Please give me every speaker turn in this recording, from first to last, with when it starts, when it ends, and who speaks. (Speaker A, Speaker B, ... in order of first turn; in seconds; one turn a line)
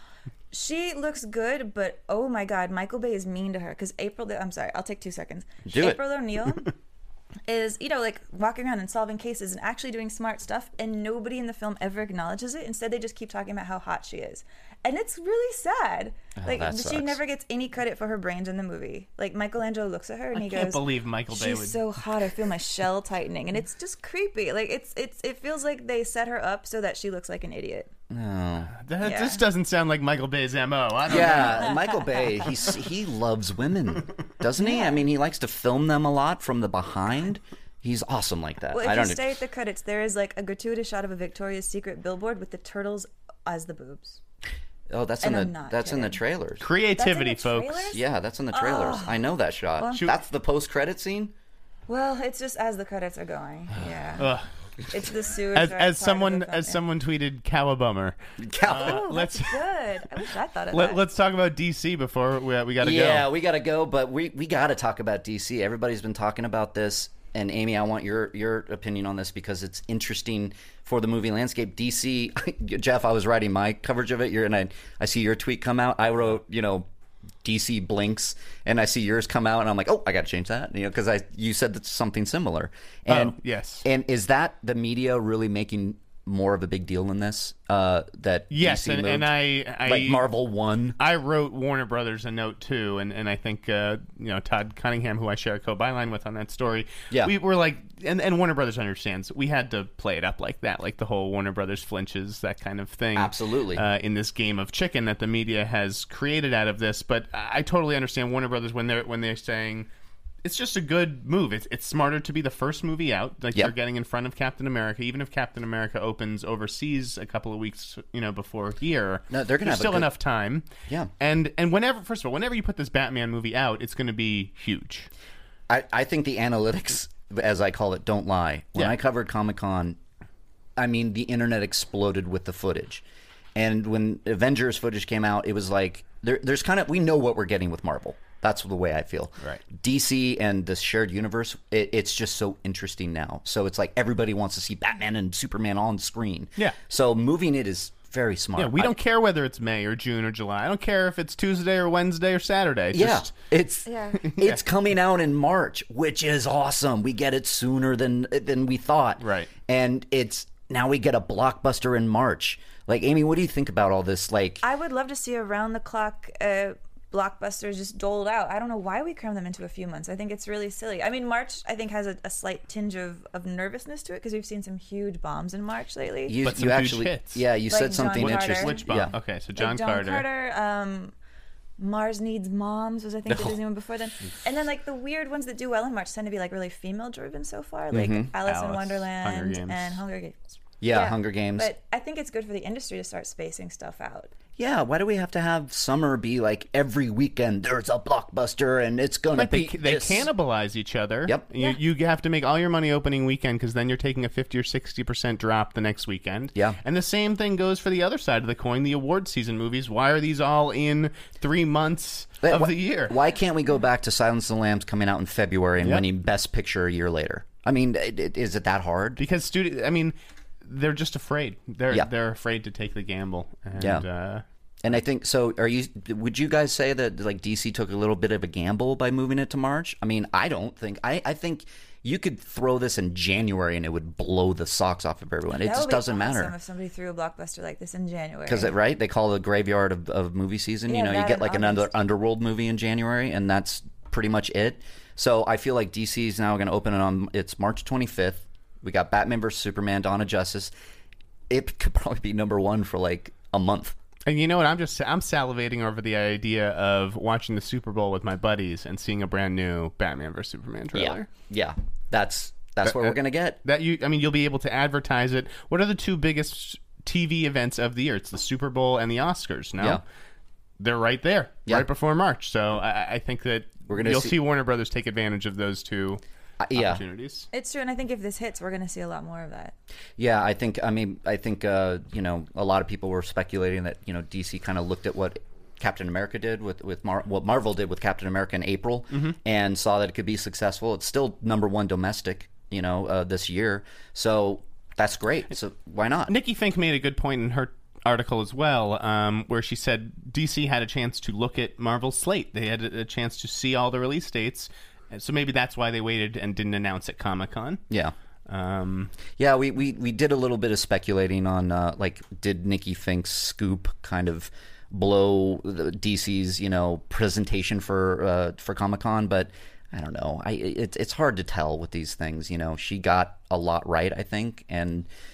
Speaker A: 0.5-6.7
Speaker B: 5.7-6.0
Speaker A: 7.5-27.9
Speaker B: 16.4-17.2
Speaker C: 20.3-21.9
Speaker B: 28.1-28.8
Speaker C: 28.7-31.7
Speaker A: 29.0-29.4
Speaker B: 31.1-39.3
Speaker A: 31.1-32.3
Speaker A: 34.6-35.0
Speaker A: 38.7-44.2
Speaker B: 44.9-46.7
Speaker A: 45.2-46.2
Speaker C: 46.6-48.0
Speaker A: 47.0-49.3
Speaker B: 47.9-51.3
Speaker A: 49.8-50.0
Speaker A: 51.9-54.3
Speaker C: 54.2-54.5
Speaker A: 54.9-56.8
Speaker C: 55.5-59.7
Speaker B: 58.4-59.1
Speaker A: 58.6-61.0
Speaker C: 60.7-63.3
Speaker B: 62.8-76.9
Speaker B: 77.4-89.3
Speaker C: 83.1-83.9
Speaker C: 88.5-90.3
Speaker B: 89.8-91.0
Speaker C: 91.0-109.9
Speaker B: 103.2-103.8
Speaker C: 110.4-120.7
Speaker B: 119.3-120.1
Speaker C: 121.2-125.1
Speaker B: 125.7-130.0
Speaker B: 130.8-133.0
Speaker B: 133.6-149.0
Speaker C: 148.6-153.3
Speaker B: 152.9-164.6
Speaker A: 153.9-154.2
Speaker C: 154.2-154.6
Speaker C: 159.2-159.5
Speaker A: 164.6-176.4
Speaker B: 176.3-179.1
Speaker C: 176.4-177.5
Speaker A: 177.7-178.9
Speaker C: 178.0-180.3
Speaker A: 179.6-181.1
Speaker A: 181.8-194.3
Speaker B: 183.3-183.6
Speaker B: 187.9-188.3
Speaker C: 188.4-190.0
Speaker B: 190.8-191.7
Speaker B: 194.6-200.3
Speaker C: 199.3-213.2
Speaker B: 212.4-219.2
Speaker C: 215.8-216.1
Speaker C: 219.2-224.4
Speaker B: 223.8-224.1
Speaker B: 224.8-236.5
Speaker A: 235.5-238.8
Speaker B: 238.5-250.7
Speaker A: 240.9-241.9
Speaker B: 251.5-254.0
Speaker C: 254.3-261.3
Speaker B: 260.9-263.6
Speaker C: 262.8-270.0
Speaker C: 270.8-276.2
Speaker B: 273.9-274.4
Speaker B: 276.6-277.0
Speaker C: 276.7-277.5
Speaker A: 277.5-279.7
Speaker B: 280.2-296.3
Speaker C: 296.3-307.8
Speaker B: 307.9-308.1
Speaker C: 308.5-309.1
Speaker B: 309.4-325.1